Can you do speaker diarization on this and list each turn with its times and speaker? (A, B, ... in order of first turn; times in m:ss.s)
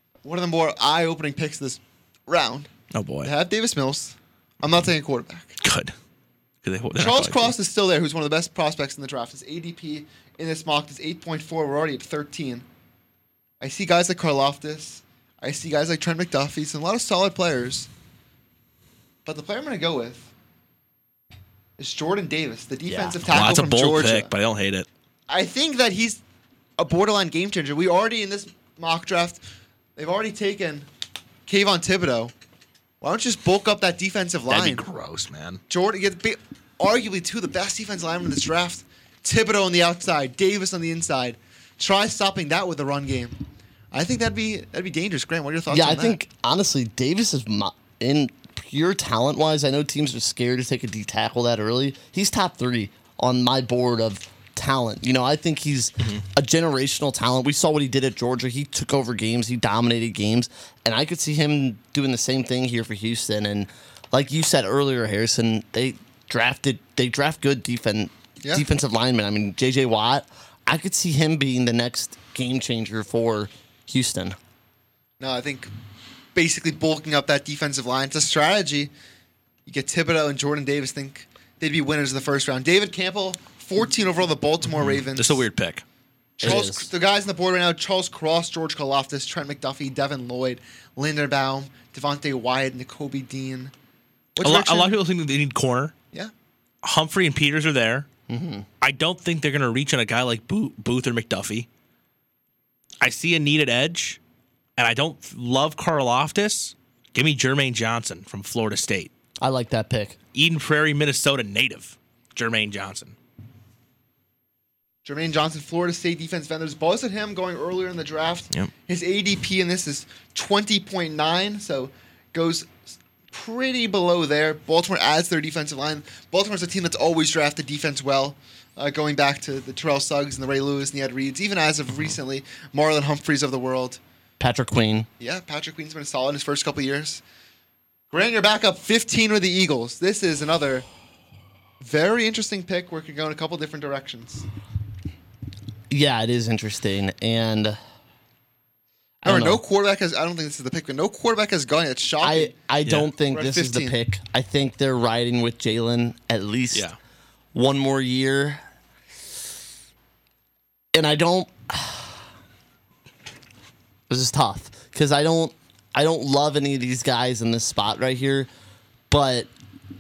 0:00.2-0:02.7 A
0:02.9-0:03.3 B
0:03.2-0:05.6 A
0:05.6-0:05.9 B
0:06.6-0:07.6 B
0:07.0-0:12.7 A
0:13.6-0:17.9 A
0:19.2-0:20.3 A
0:21.8-0:24.3 A
0:22.9-0:23.2 C
0:23.3-0:24.9 B
0:25.3-0:26.2 A
0:26.8-0:29.4 A
0:30.0-0:30.9 A
0:31.5-0:32.3 A
0:33.0-0:34.8 A
0:34.5-0:35.6 B
0:35.7-0:43.4 A
0:43.9-0:46.2 A
0:45.7-1:14.4 C
1:15.2-1:15.7 A
1:16.3-1:18.9 A
1:19.7-1:25.4 A
1:24.6-1:25.8 B
1:26.4-1:26.9 C
1:26.4-1:33.7 A
1:34.4-1:35.0 A
1:34.4-1:35.9 B
1:36.8-1:38.1 B
1:38.3-1:38.7 C
1:38.8-1:41.7 B
1:43.0-1:44.2 B
1:44.8-1:49.1 B
1:49.4-1:50.2 C
1:50.3-1:53.2 B
1:55.0-2:02.8 A
2:03.3-2:14.0 A
2:14.4-2:15.1 C
2:15.2-2:17.2 A
2:18.1-2:20.9 A
2:21.8-2:24.5 A
2:25.9-2:27.8 C
2:29.2-2:29.6 C
2:29.2-2:32.6 A
2:32.2-2:36.9 C
2:33.3-2:34.0 A
2:37.5-2:38.6 C
2:40.9-2:42.2 C
2:44.1-2:48.5 C
2:49.1-2:49.5 C